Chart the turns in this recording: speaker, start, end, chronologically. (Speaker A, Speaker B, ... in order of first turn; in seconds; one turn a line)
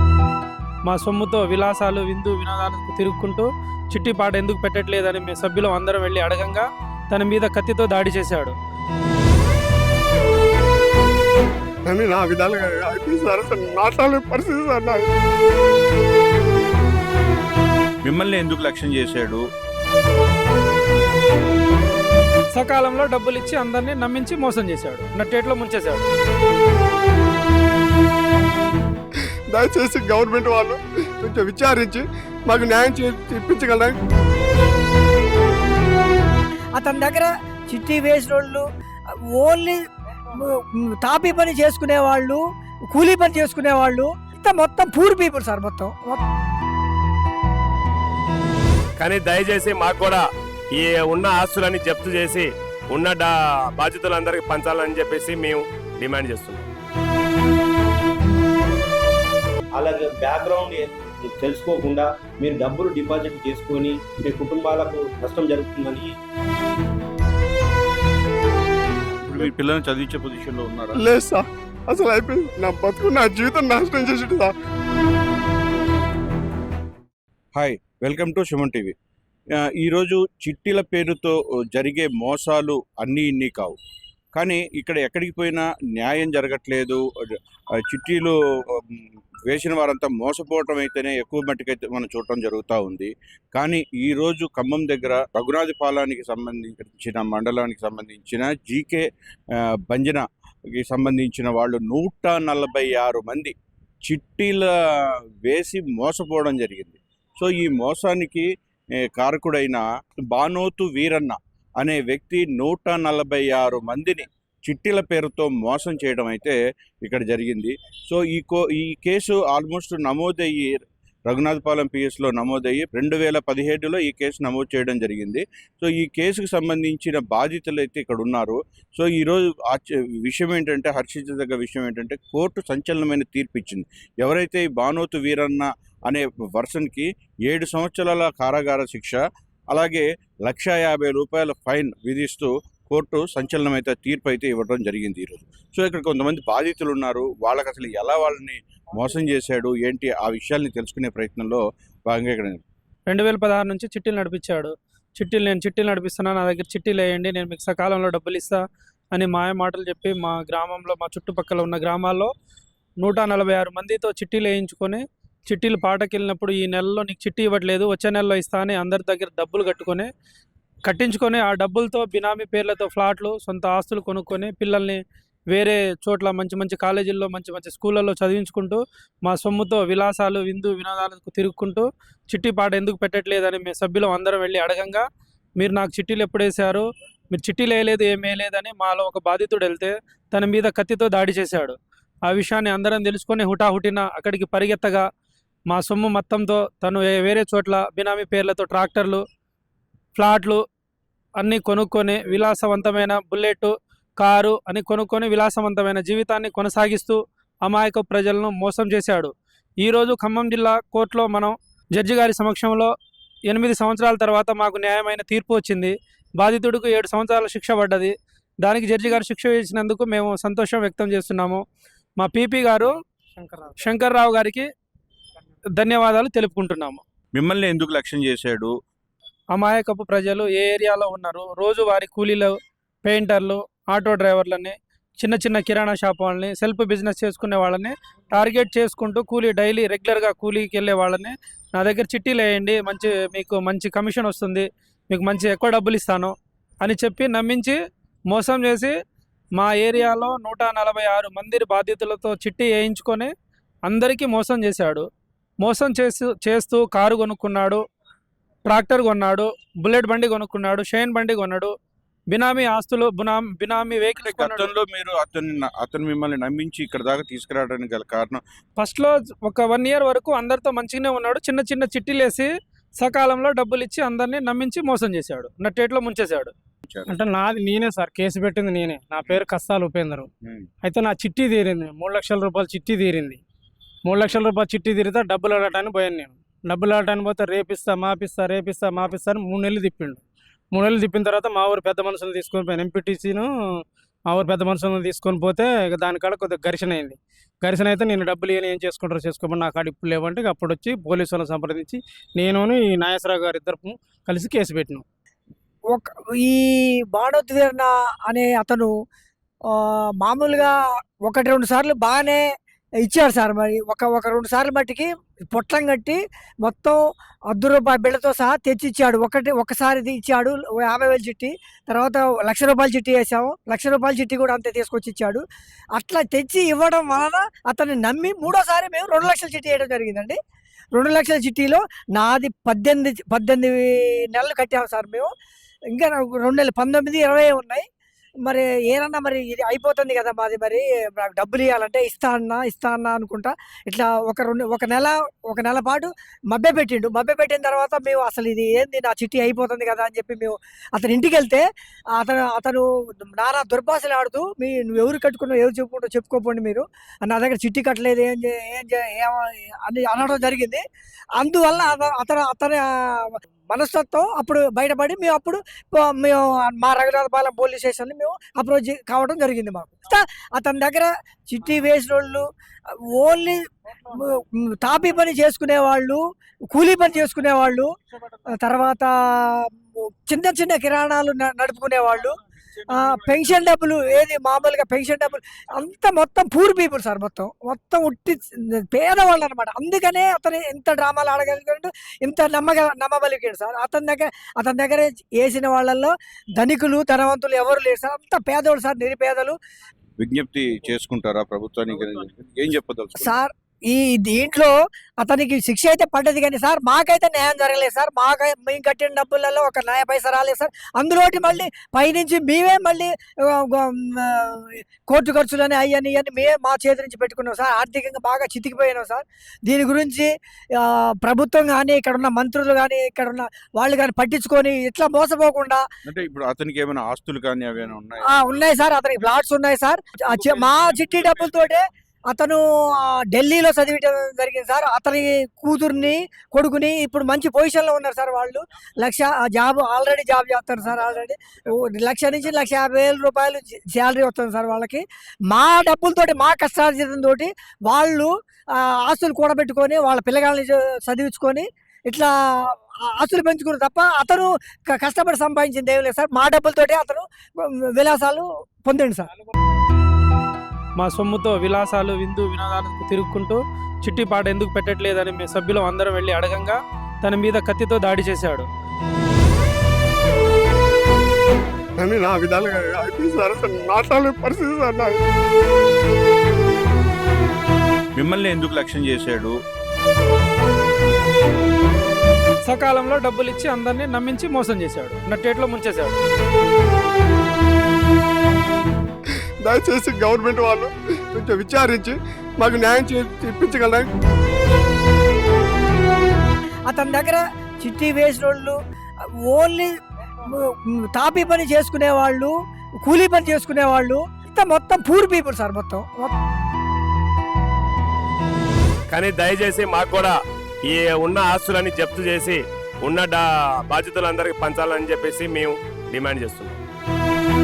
Speaker A: 0.8-8.5
Speaker B: 11.9-15.1
Speaker C: 18.1-19.4
Speaker A: 22.6-26.0
Speaker B: 29.5-34.0
Speaker D: 36.8-38.6
Speaker D: 39.3-39.8
Speaker D: 40.4-46.2
Speaker E: 49.0-56.7
Speaker F: 59.7-66.1
Speaker C: 69.2-71.0
Speaker B: 71.0-74.5
Speaker C: 77.5-78.9
Speaker C: 79.6-83.8
Speaker C: 84.4-87.3
Speaker C: 87.9-99.0
Speaker C: 99.5-100.2
Speaker C: 100.8-103.5
Speaker C: 104.1-108.5
Speaker C: 109.0-139.2
Speaker C: 139.7-152.6
Speaker A: 153.1-158.6
Speaker A: 159.1-162.3
Speaker A: 163.0-170.1
Speaker A: 170.8-175.0
Speaker A: 175.5-185.0
Speaker A: 185.6-191.8
Speaker A: 192.3-195.0
Speaker A: 195.7-199.2
Speaker A: 200.2-200.6
Speaker A: 201.4-212.9
Speaker A: 213.5-221.6
Speaker A: 222.2-222.9
Speaker G: 223.4-223.7
Speaker A: 223.8-224.7
Speaker A: 225.8-227.0
Speaker C: 227.3-228.7
Speaker A: 229.5-232.5
Speaker A: 233.0-247.8
Speaker A: 248.3-248.9
Speaker A: 249.6-253.3
Speaker A: 253.9-255.1
Speaker A: 255.6-257.8
Speaker A: 258.7-261.7
Speaker A: 262.3-264.7
Speaker C: 264.2-268.4
Speaker A: 268.8-272.5
Speaker A: 273.0-276.5
Speaker C: 276.9-277.1
Speaker G: 277.1-280.3
Speaker G: 280.8-283.4
Speaker G: 284.1-290.2
Speaker G: 290.7-305.0
Speaker D: 305.9-308.9
Speaker D: 309.7-312.4
Speaker D: 313.0-317.0
Speaker D: 317.5-325.4
Speaker D: 325.9-330.4
Speaker D: 330.9-335.3
Speaker D: 335.9-337.8
Speaker D: 338.4-351.6
Speaker D: 352.1-360.8
Speaker D: 361.4-372.4
Speaker D: 372.9-377.9
Speaker D: 378.5-399.6
Speaker C: 400.2-403.4
Speaker D: 403.2-425.8
Speaker C: 426.1-428.3
Speaker D: 428.3-459.3
Speaker C: 430.5-431.0
Speaker A: 461.0-468.7
Speaker B: 472.0-475.2
Speaker C: 478.1-479.6
Speaker A: 482.7-486.2
Speaker B: 489.6-494.1
Speaker D: 496.9-498.8
Speaker D: 499.4-499.9
Speaker D: 500.5-506.3
Speaker E: 509.1-516.8